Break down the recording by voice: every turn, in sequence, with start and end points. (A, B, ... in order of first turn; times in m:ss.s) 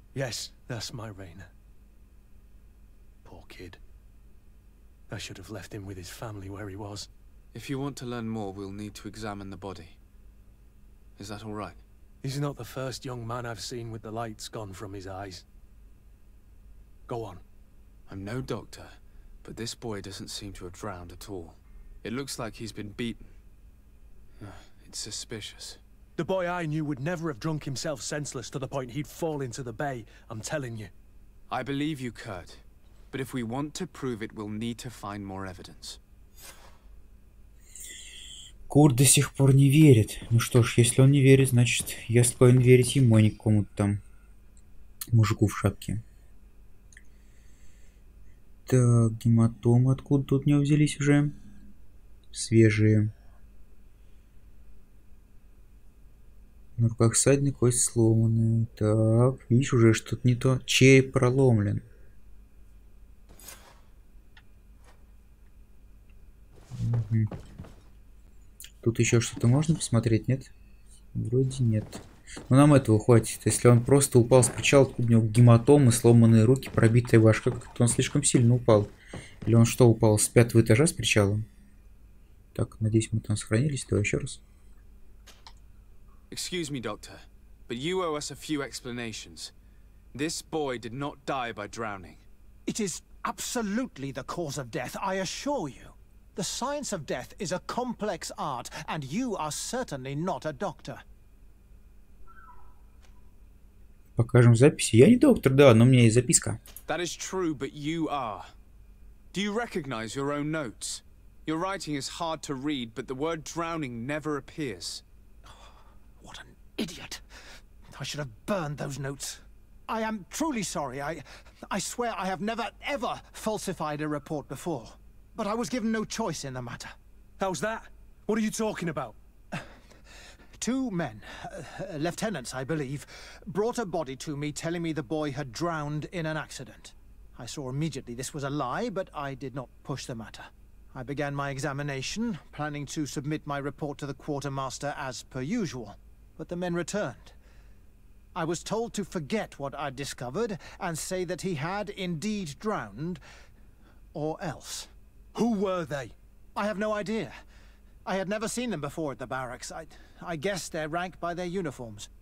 0:00.1-0:01.5 A
0:03.2-0:03.8 A
0:05.1-0:07.1 A
0:07.5-0:10.0 B
0:11.2-0:11.8 B
0:12.2-0:15.4 A
0:17.1-0:17.4 A
0:18.1-0:23.4 B
0:24.4-0:25.8 B
0:26.2-0:30.9 A
0:31.5-0:36.0 B
0:38.7-0:44.0 C
0:45.1-0:46.0 C
0:48.7-0:51.4 C
0:52.3-0:53.1 C
0:56.8-1:01.8 C
1:06.7-1:07.3 C
1:08.8-1:10.5 C
1:11.1-1:18.9 C
1:19.4-1:21.4 C
1:22.5-1:24.4 C
1:26.3-1:29.5 B
1:30.1-1:32.2 B
1:32.6-1:41.0 D
1:44.2-1:46.6 C
1:46.9-1:48.5 B
1:49.3-1:55.0 B
1:56.2-1:57.2 D
1:57.9-2:07.0 D
2:07.4-2:09.2 A
2:10.6-2:27.4 D
2:28.4-2:33.2 D
2:34.1-2:34.9 D
2:35.4-2:36.1 A
2:36.6-2:37.4 D
2:38.0-2:42.1 D